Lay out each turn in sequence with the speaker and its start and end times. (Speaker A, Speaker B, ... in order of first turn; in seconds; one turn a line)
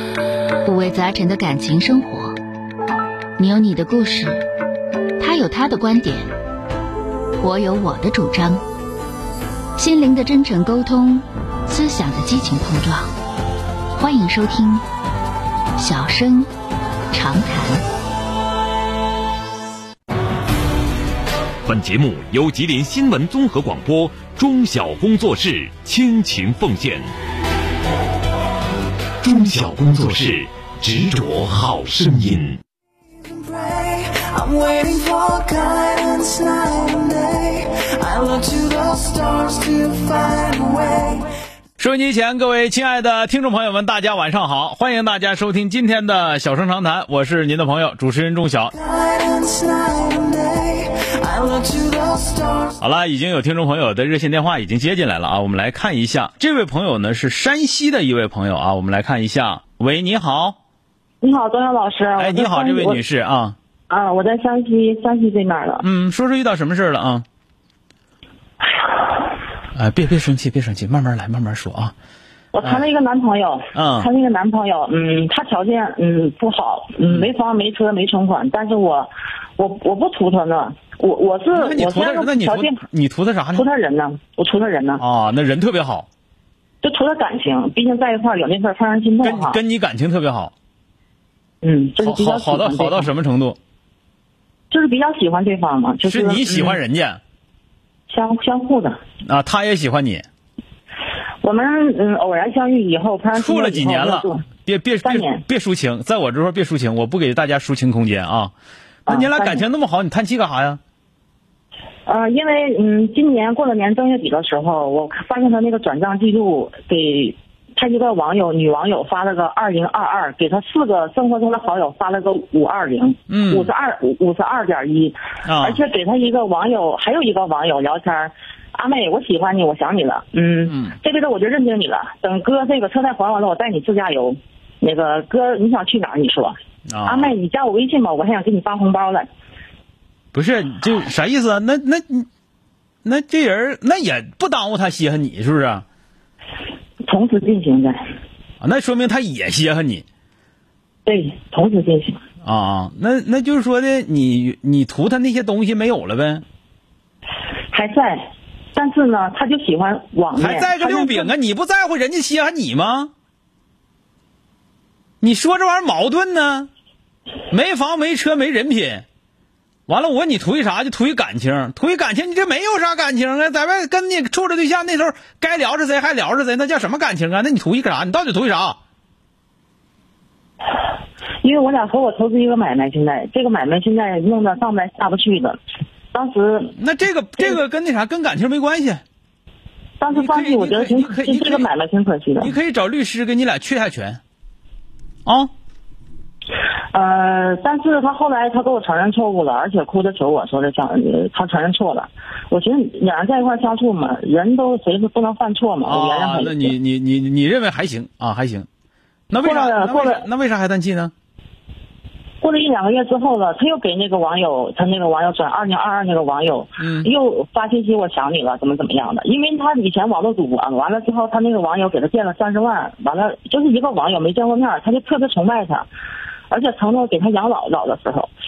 Speaker A: 0.7-2.4
Speaker A: 3.4-4.4
Speaker A: 5.2-6.3
Speaker A: 7.4-8.6
Speaker A: 9.8-13.1
Speaker A: 14.0-14.8
Speaker A: 15.8-16.5
Speaker A: 17.1-17.8
Speaker B: 21.6-27.1
Speaker B: 29.2-32.6
Speaker C: 33.2-41.3
Speaker D: 41.8-48.7
Speaker C: 48.8-52.7
Speaker D: 52.8-60.6
Speaker E: 61.2-63.0
Speaker D: 62.2-63.6
Speaker E: 63.9-65.8
Speaker D: 65.8-67.2
Speaker D: 69.7-71.9
Speaker E: 72.5-82.8
Speaker D: 73.7-74.1
Speaker D: 81.5-83.7
Speaker E: 83.5-85.0
Speaker D: 85.0-86.1
Speaker E: 86.8-89.6
Speaker D: 89.2-90.5
Speaker E: 91.6-93.1
Speaker D: 92.0-93.6
Speaker E: 94.7-96.8
Speaker D: 96.0-97.2
Speaker E: 98.1-99.0
Speaker D: 99.2-100.3
Speaker E: 101.4-104.4
Speaker D: 103.3-108.5
Speaker E: 105.0-105.4
Speaker E: 109.1-109.6
Speaker D: 109.1-110.8
Speaker E: 112.1-139.3
Speaker D: 123.3-123.7
Speaker D: 125.5-125.8
Speaker D: 130.7-131.0
Speaker D: 136.9-137.3
Speaker D: 140.3-142.3
Speaker D: 143.1-145.8
Speaker E: 147.0-148.0
Speaker D: 148.6-150.1
Speaker E: 151.1-152.2
Speaker D: 152.4-156.4
Speaker E: 157.7-161.3
Speaker D: 160.3-163.1
Speaker D: 165.2-166.7
Speaker D: 167.5-169.1
Speaker D: 169.9-178.8
Speaker E: 181.4-185.6
Speaker E: 186.1-186.7
Speaker D: 186.8-189.0
Speaker E: 190.0-192.5
Speaker D: 190.1-191.7
Speaker D: 192.4-194.2
Speaker D: 195.3-195.5
Speaker E: 196.9-206.7
Speaker D: 205.8-208.7
Speaker D: 209.3-211.1
Speaker E: 209.4-210.2
Speaker E: 212.4-225.9
Speaker D: 216.8-217.1
Speaker E: 226.5-228.3